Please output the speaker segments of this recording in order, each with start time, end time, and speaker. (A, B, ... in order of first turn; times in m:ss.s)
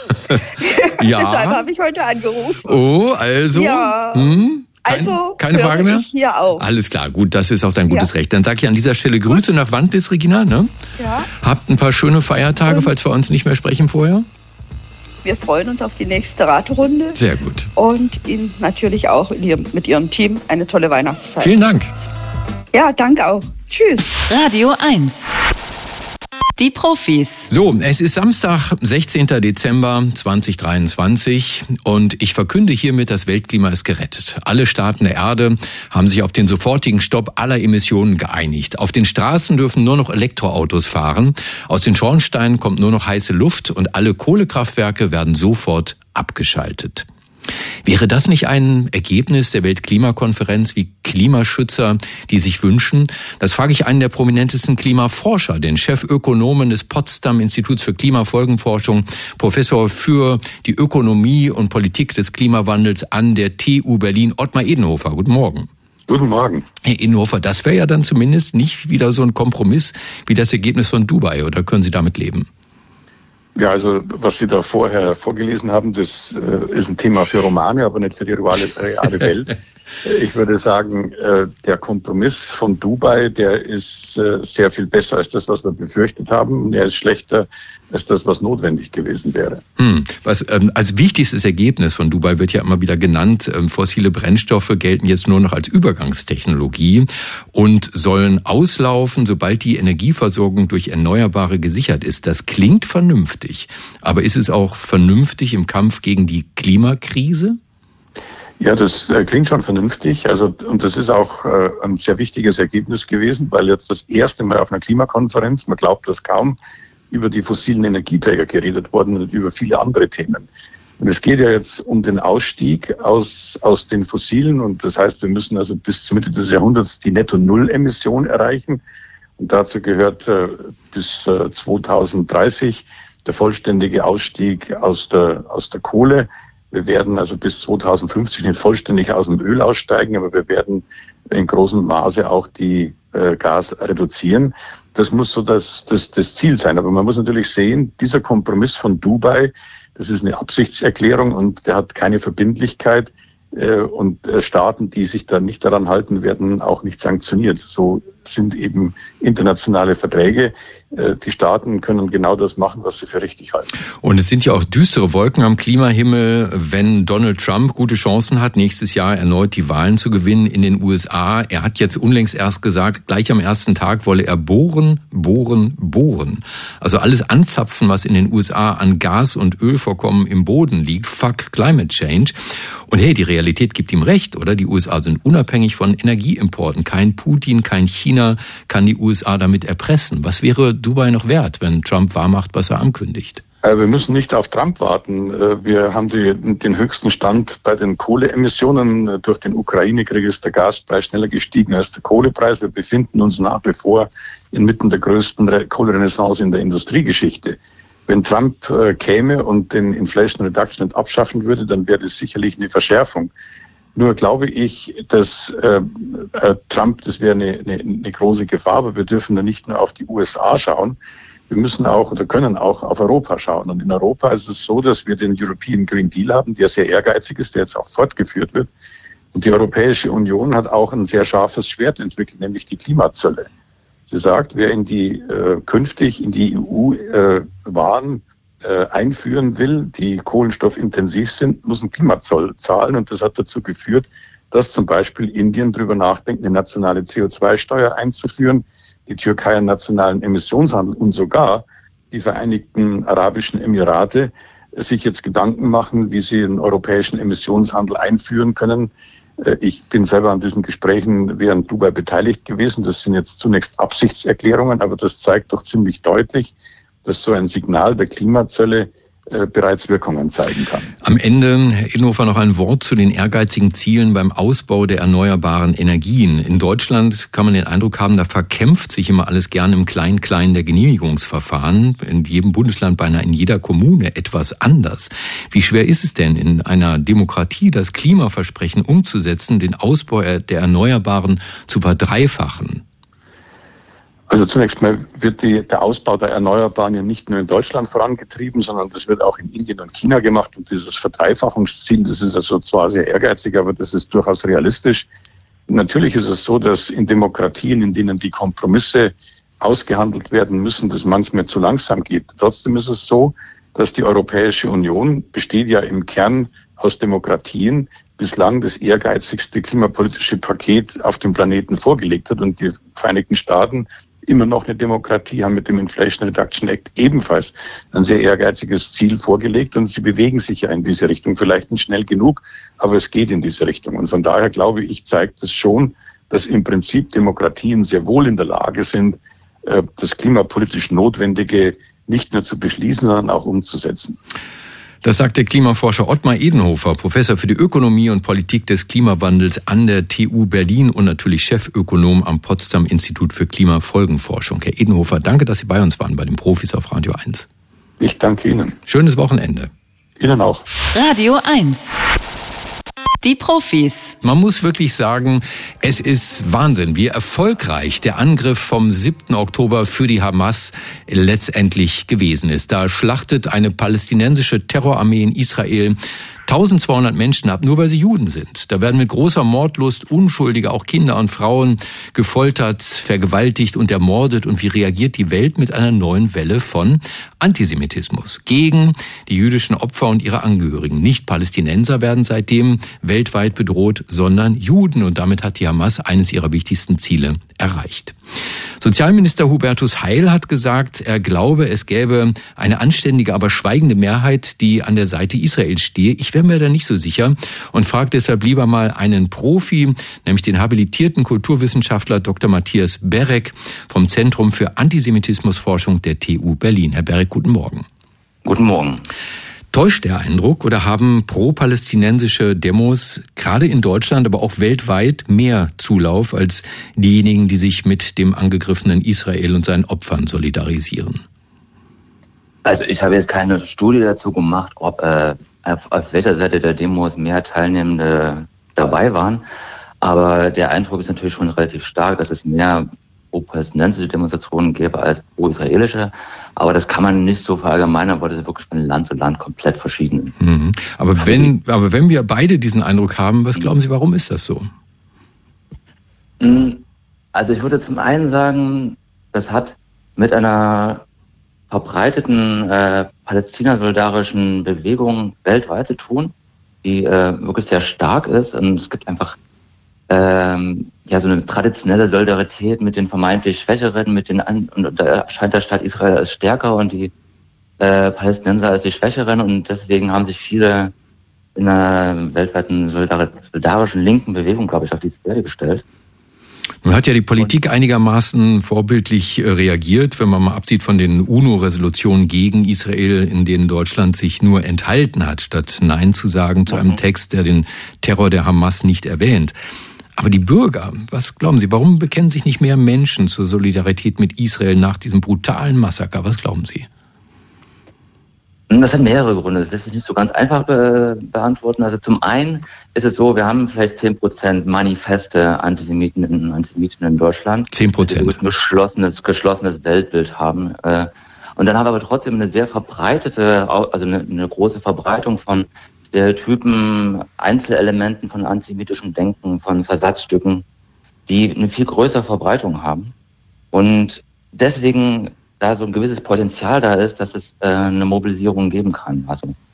0:00.6-0:02.8 A
0:01.0-0:01.6 B
0:02.6-0:10.7 B
0:03.5-0:06.6 A
0:11.0-0:11.3 A
0:11.4-0:14.3 B
0:12.7-0:12.9 A
0:15.2-0:17.2 A
0:17.2-0:17.7 B
0:17.8-0:21.6 A
0:21.4-0:21.9 B
0:22.7-0:24.2 A
0:24.3-0:25.4 C
0:26.6-0:27.5 C
0:27.5-0:47.1 B
0:47.8-1:05.7 B
1:06.1-1:06.7 D
1:06.8-1:12.5 B
1:13.6-1:19.5 D
1:20.0-1:29.6 D
1:29.8-1:47.6 B
1:48.6-1:56.6 D
1:57.1-2:00.5 D
2:01.0-2:08.8 D
2:09.4-2:43.7 D
2:44.0-3:02.4 B
3:02.9-3:13.4 B
3:13.6-3:33.3 D
3:34.0-3:41.0 D
3:41.5-3:48.7 D
3:49.3-3:53.5 D
3:54.1-4:26.5 D
4:27.0-4:30.9 D
4:31.0-4:52.8 B
4:54.3-5:05.1 D
5:05.7-5:44.2 D
5:45.0-5:57.5 B
5:58.0-5:58.8 D
5:58.9-5:59.7 B
6:00.2-6:00.6 D
6:00.9-6:02.0 C
6:03.2-6:04.2 C
6:04.2-6:38.2 B
6:38.8-6:57.9 B
6:58.4-6:59.0 E
6:59.7-7:11.2 B
7:12.6-7:19.4 E
7:20.0-7:30.4 E
7:30.4-7:34.7 B
7:31.2-7:31.5 E
7:36.4-7:36.8 E
7:37.3-7:41.0 E
7:41.7-7:46.3 E
7:46.8-7:49.4 E
7:50.1-7:57.1 E
7:57.8-8:00.9 E
8:01.6-8:05.8 E
8:06.8-8:19.6 B
8:16.7-8:17.0 E
8:20.2-8:26.9 B
8:28.7-8:50.6 E
8:37.7-8:38.4 B
8:51.3-8:53.1 E
8:53.7-8:59.6 E